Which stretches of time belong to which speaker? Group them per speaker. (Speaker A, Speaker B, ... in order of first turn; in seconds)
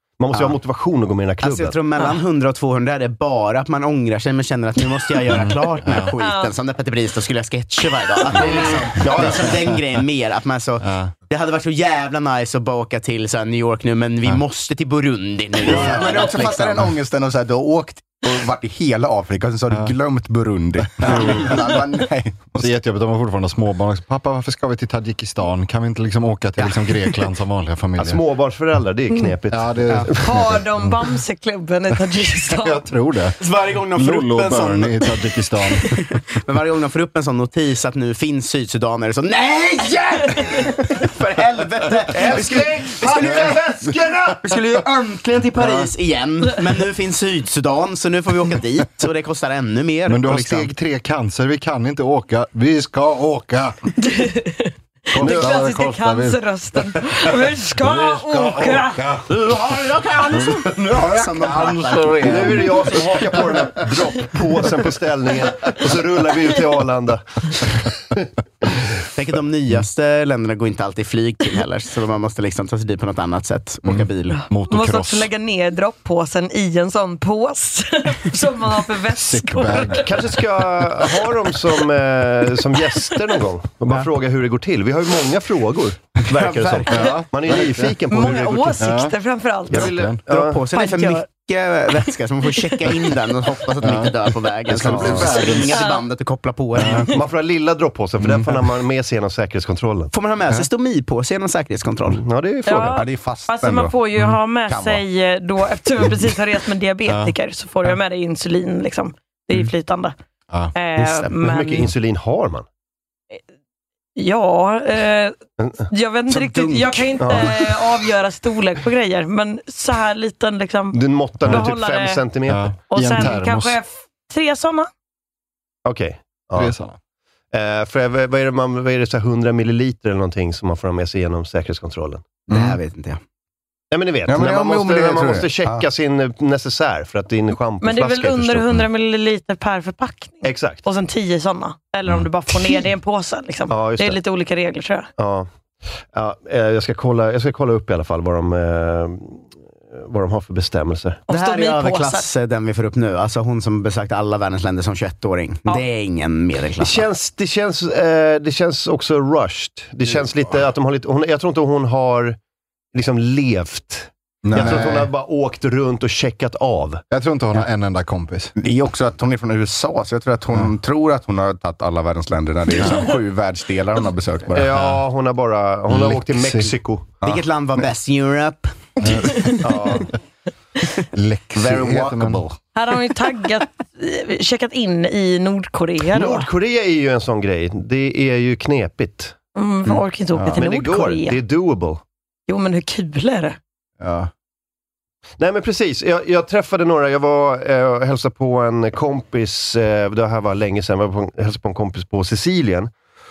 Speaker A: 0.2-1.8, 8.4-9.6, 28.0-30.4, 62.2-68.9, 80.0-89.0, 89.7-90.6, 94.7-95.5, 97.1-100.1, 102.1-103.0, 111.4-112.7, 117.2-117.5, 120.9-122.8, 125.8-126.7, 127.5-132.3, 133.9-138.8, 140.4-140.8, 143.7-144.2, 145.2-145.5, 146.1-151.2, 156.8-162.4, 162.9-167.0, 174.5-177.1, 179.6-180.1, 186.1-189.4, 190.6-192.0, 195.4-202.9
Speaker B: 1.4-16.9, 26.6-27.2, 33.4-35.1, 35.9-50.7, 59.3-63.4, 69.2-74.4, 86.3-87.2, 90.3-97.1, 100.1-102.2, 111.0-111.3, 116.3-117.6, 132.5-133.2, 151.3-157.1, 177.2-179.6
Speaker C: 6.1-6.5, 30.2-32.8, 54.0-59.0, 74.7-80.1, 88.1-89.9, 90.7-91.3, 102.7-110.1, 110.8-111.9, 114.2-115.3, 115.9-122.2, 122.9-124.9, 137.8-145.1, 151.3-152.3, 182.8-186.5, 189.6-191.4, 192.5-193.6
Speaker D: 10.8-11.1, 21.0-21.6, 22.6-28.2, 29.5-31.0, 32.5-33.4, 33.9-35.9, 42.2-44.6, 45.6-45.9, 50.1-53.8, 55.1-56.4, 57.8-59.4, 60.3-63.9, 73.8-75.3, 79.1-80.4, 86.9-88.0, 88.8-89.1, 89.7-90.2, 93.8-94.1, 94.7-95.8, 96.8-97.1, 98.2-98.6, 107.1-107.3, 122.5-123.8, 126.6-127.0, 164.5-165.1, 167.1-168.5, 175.9-176.7, 179.0-179.5, 181.2-182.4, 190.3-190.6, 194.0-194.3
Speaker E: 15.7-22.7, 103.0-103.9, 104.7-105.0, 132.5-132.8, 134.3-135.8, 164.4-164.9, 168.6-175.0, 181.6-182.6